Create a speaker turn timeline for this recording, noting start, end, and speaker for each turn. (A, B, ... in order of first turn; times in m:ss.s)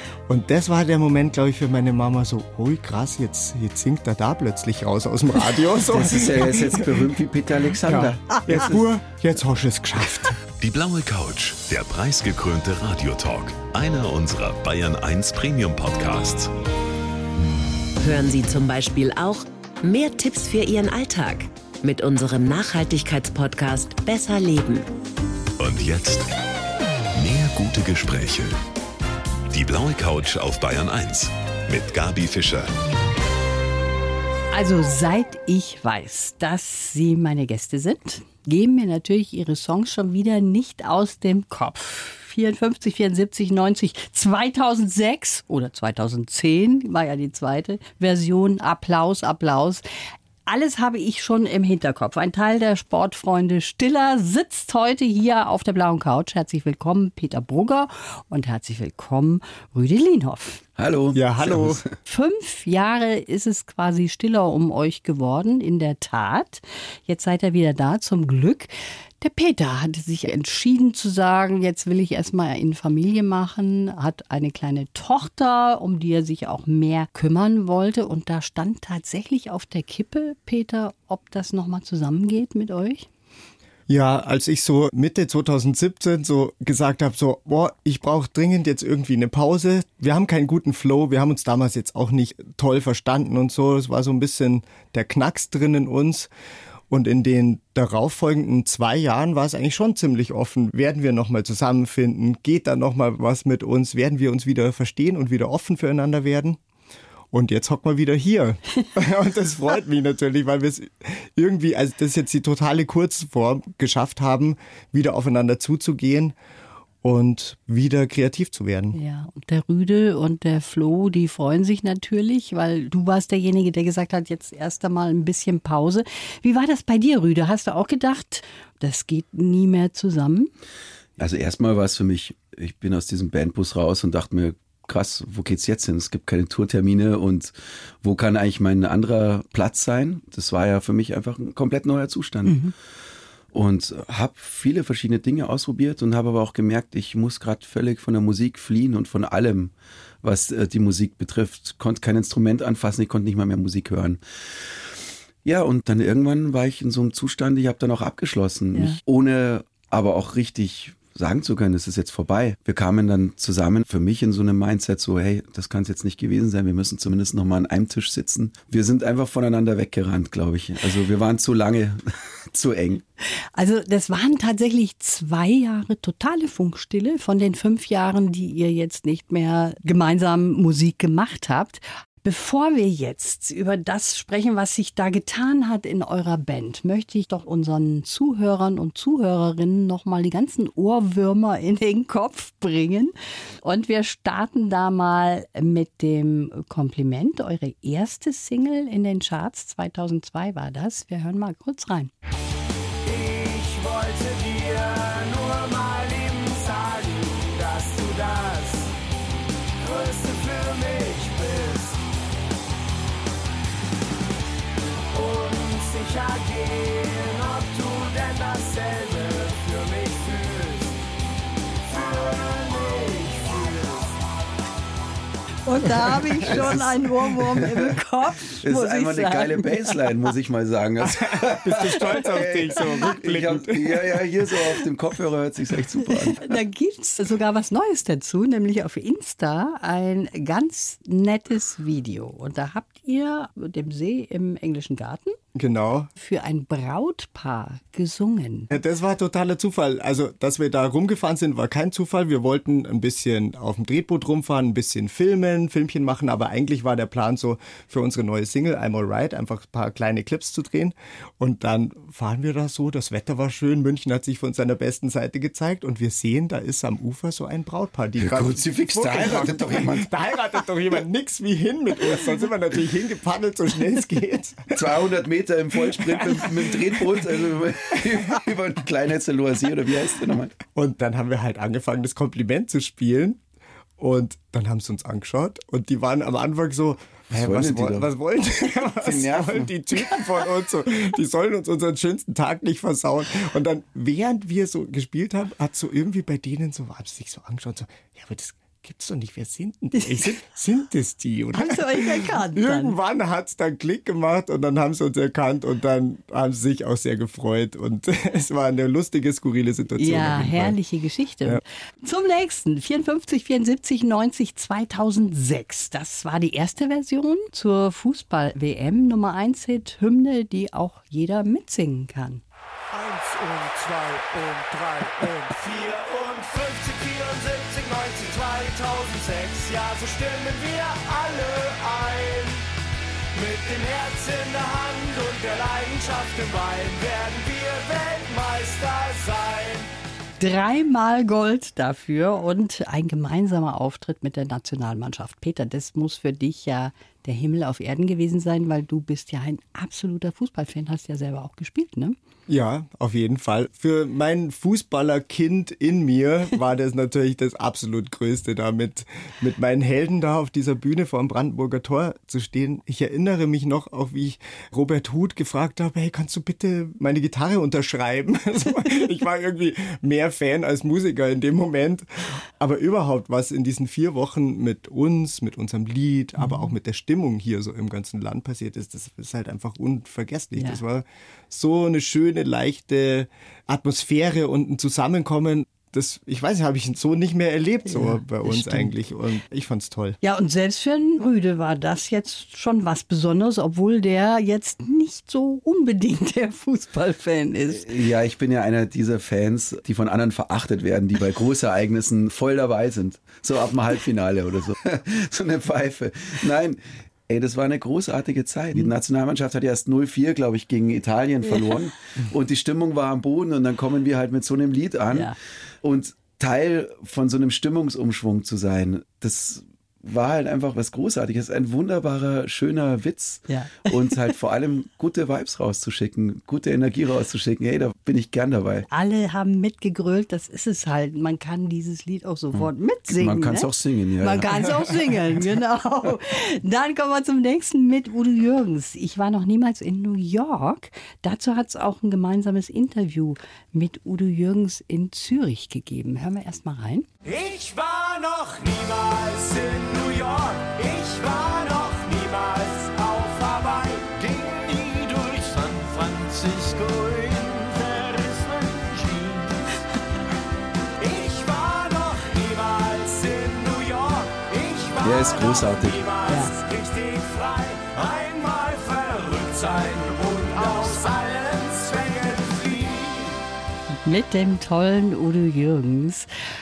0:00.3-0:07.0 A
0:05.9-0:08.9 B
0:07.9-0:10.4 A
0:10.6-0:16.5 C
0:18.0-0:24.9 D
0:25.6-0:26.3 C
0:27.2-0:28.6 C
0:29.5-0:32.7 C
0:34.5-0:49.8 E
0:50.5-1:00.6 E
1:00.8-1:01.9 B
1:01.1-1:01.8 A
1:02.1-1:23.1 E
1:23.9-1:36.3 A
1:36.9-1:46.6 A
1:47.3-1:56.4 A
1:57.0-1:59.0 A
1:58.9-2:10.5 E
2:11.2-2:22.6 B
2:22.5-2:22.7 E
2:23.5-2:29.7 B
2:30.2-2:34.9 B
2:35.4-2:53.0 B
2:38.7-2:39.0 E
2:53.6-3:22.1 E
3:23.0-3:29.0 F
3:29.8-3:32.0 F
3:35.1-3:41.0 F
3:41.9-3:44.2 F
3:45.7-3:50.0 E
3:46.4-3:48.0 B
3:48.5-3:56.6 B
3:51.1-3:54.2 A
3:56.3-4:05.4 E
4:05.6-4:06.1 A
4:06.2-4:08.7 E
4:08.7-4:34.8 A
4:28.2-4:30.1 B
4:34.7-4:40.6 B
4:40.7-4:43.4 A
4:44.0-5:10.8 A
4:47.3-4:48.1 B
4:48.7-4:50.2 B
5:00.0-5:00.4 E
5:01.5-5:03.0 E
5:10.0-5:22.4 E
5:22.9-5:32.6 F
5:33.4-5:39.9 F
5:40.4-5:52.2 E
5:52.5-6:30.2 A
6:16.4-6:16.7 E
6:27.9-6:28.9 E
6:30.2-6:37.9 E
6:37.7-7:08.9 B
7:03.5-7:04.1 E
7:08.9-7:27.1 E
7:12.6-7:14.8 B
7:27.2-7:39.6 F
7:41.0-7:53.4 F
7:45.0-7:46.0 B
7:46.3-7:46.5 E
7:54.0-7:56.3 E